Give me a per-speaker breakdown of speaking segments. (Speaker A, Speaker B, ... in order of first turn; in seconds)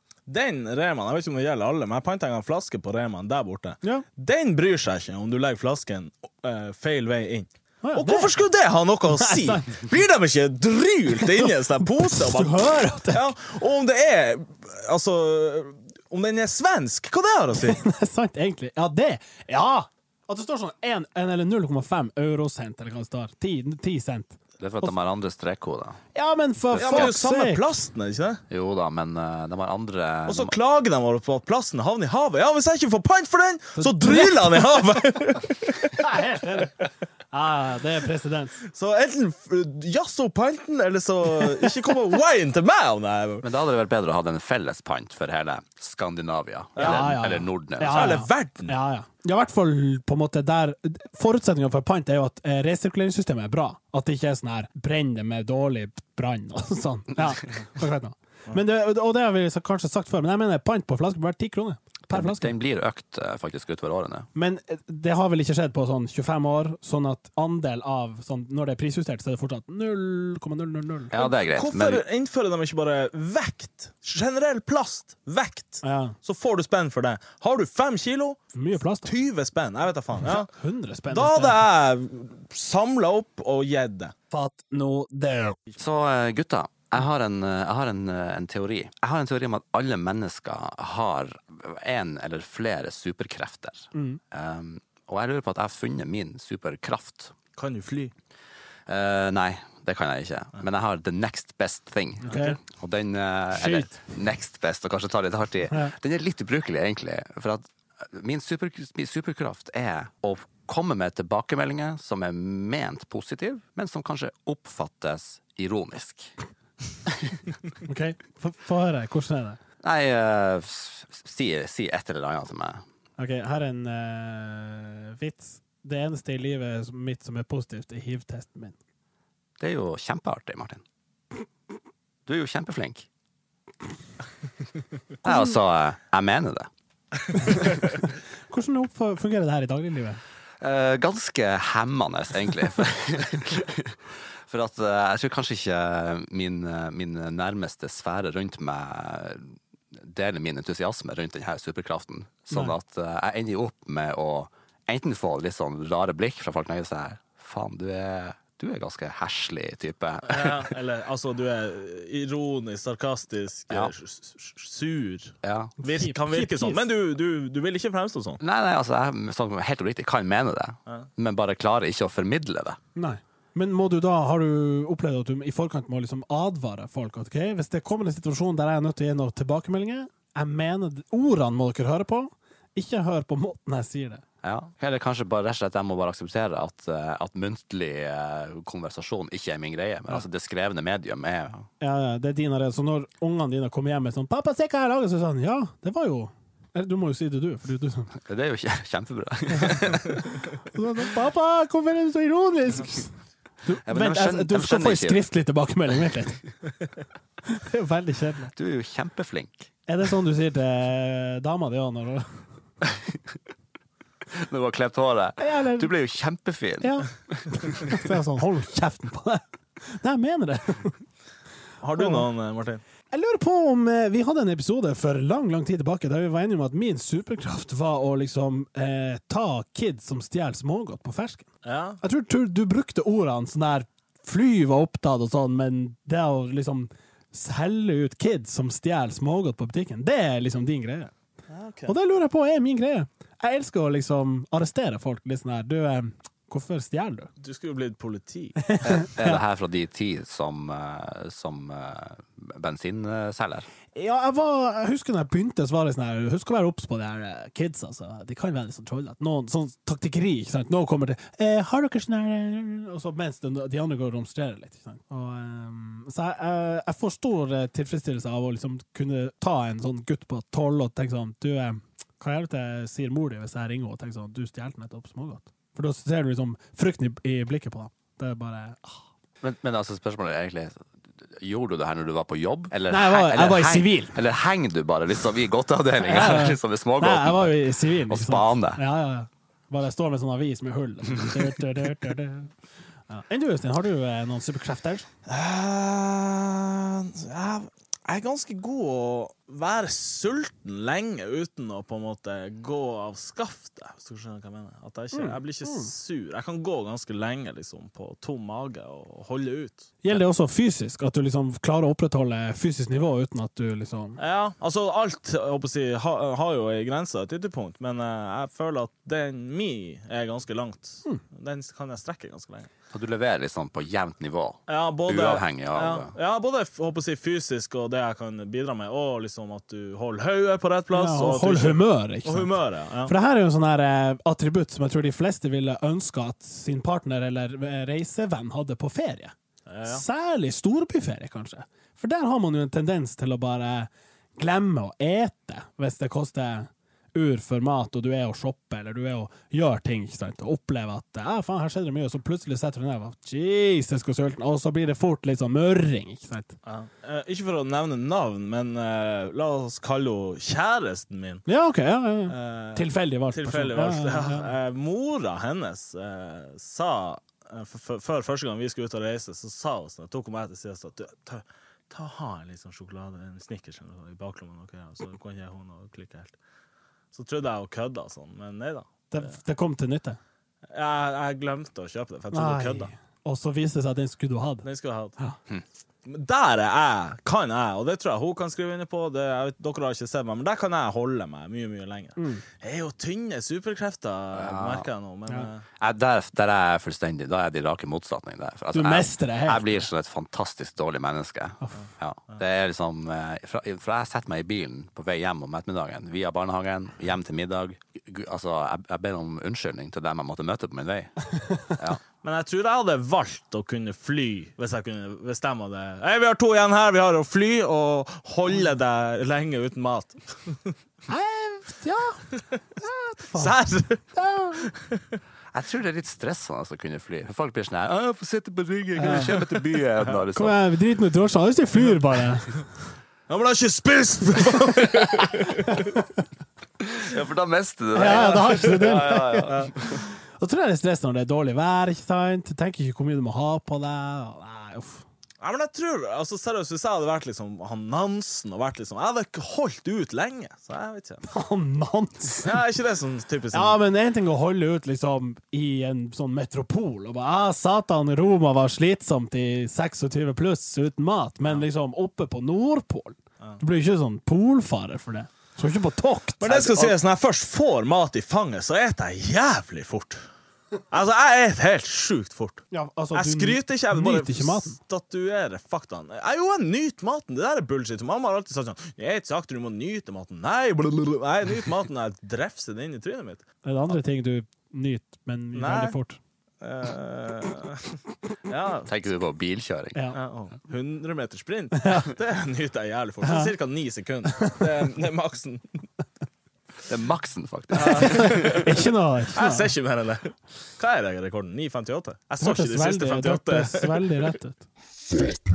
Speaker A: 0.3-17.8, 26.7-28.4, 30.3-36.1, 38.6-43.5, 46.8-47.1, 47.9-48.8, 71.2-78.4, 79.0-80.5, 81.1-84.1, 97.6-98.1, 160.2-168.4, 221.8-222.8, 231.6-232.0, 241.5-241.9, 247.4-248.6, 295.3-309.9, 314.2-322.7, 324.7-333.1, 339.7-340.0, 356.6-361.4, 362.3-376.4, 377.1-378.9, 380.7-382.9, 384.6-385.1, 386.1-395.6, 412.2-420.8, 423.3-424.0, 424.5-425.2, 433.3-435.9, 438.0-439.7, 445.4-451.3, 452.4-453.8, 466.4-470.2, 470.9-483.4, 485.5-486.0, 486.6-488.9, 490.1-495.9, 497.8-498.8, 499.3-504.1
Speaker B: 7.8-8.3, 9.1-9.8, 12.0-13.3, 17.6-24.9, 26.1-27.7, 33.8-34.6, 35.9-38.6, 46.8-62.5, 64.3-71.2, 75.8-76.2, 78.5-79.1, 80.2-81.6, 84.3-85.6, 93.9-94.2, 102.2-102.6, 103.5-104.0, 117.8-119.6, 123.2-128.8, 135.2-135.5, 137.4-140.2, 165.8-166.8, 173.0-184.2, 191.8-198.1, 200.7-203.1, 203.7-206.4, 207.5-208.5, 209.9-212.3, 215.4-215.9, 216.8-221.0, 222.0-222.3, 223.1-231.5, 232.0-241.1, 241.9-247.3, 248.6-249.4, 253.9-279.0, 282.9-284.1, 286.0-292.5, 293.1-295.1, 305.1-305.9, 310.0-314.2, 330.9-356.6, 361.5-364.5, 379.1-380.2, 382.3-384.7, 392.2-392.4, 398.7-399.8, 401.6-401.9, 421.1-423.6, 424.1-424.7, 429.0-429.4, 430.3-432.6, 435.7-436.0, 437.9-439.7, 440.4-445.0, 451.3-452.6, 453.5-466.9, 472.7-474.8, 483.6-486.2, 491.7-492.1, 493.2-493.5, 494.3-494.6, 497.9-499.7, 502.4-504.7
Speaker C: 24.6-26.0, 26.7-27.1, 28.5-30.5, 43.4-48.2, 62.1-64.3, 71.1-72.0, 85.8-97.3, 98.9-116.3, 117.1-117.4, 119.8-122.8, 129.6-130.8, 132.3-133.1, 135.2-136.7, 140.6-160.7, 165.4-165.7, 168.4-172.8, 184.4-191.7, 198.2-200.5, 203.9-205.2, 208.6-209.7, 214.3-218.0, 248.8-253.7, 279.4-288.8, 291.2-291.5, 322.9-326.1, 394.3-394.9, 395.8-412.0, 425.5-430.6, 436.9-440.0, 488.9-490.0, 496.9-498.8